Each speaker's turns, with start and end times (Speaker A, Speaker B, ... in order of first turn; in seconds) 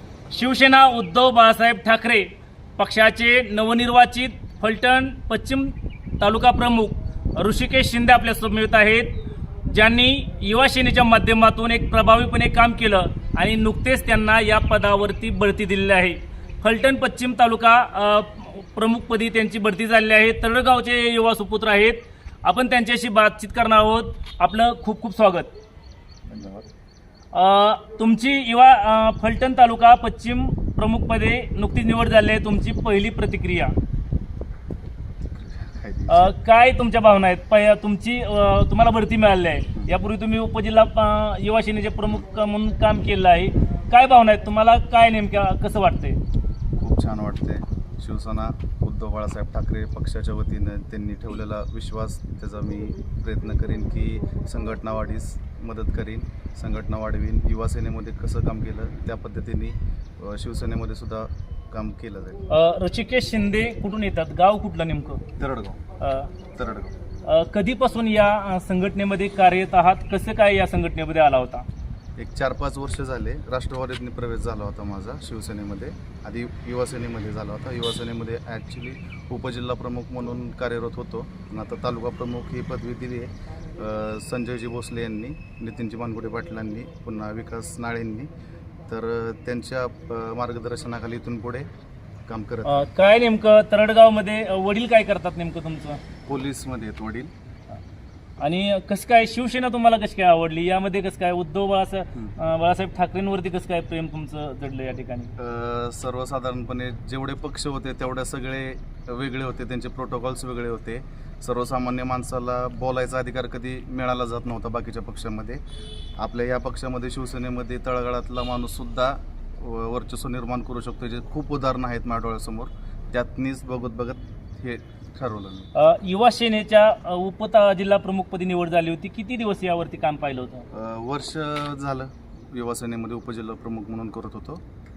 Speaker A: 0.3-25.5, 27.3-33.7, 36.1-46.2, 62.5-65.2, 66.0-66.3, 67.2-71.7, 92.7-96.0, 98.4-105.3, 125.8-130.7
Speaker B: 26.3-26.7, 35.2-36.3, 46.8-62.4, 65.4-65.8, 66.5-66.9, 72.2-88.3, 88.9-91.7, 92.3-92.9, 96.3-97.3, 105.4-115.6, 116.2-125.7, 130.7-134.6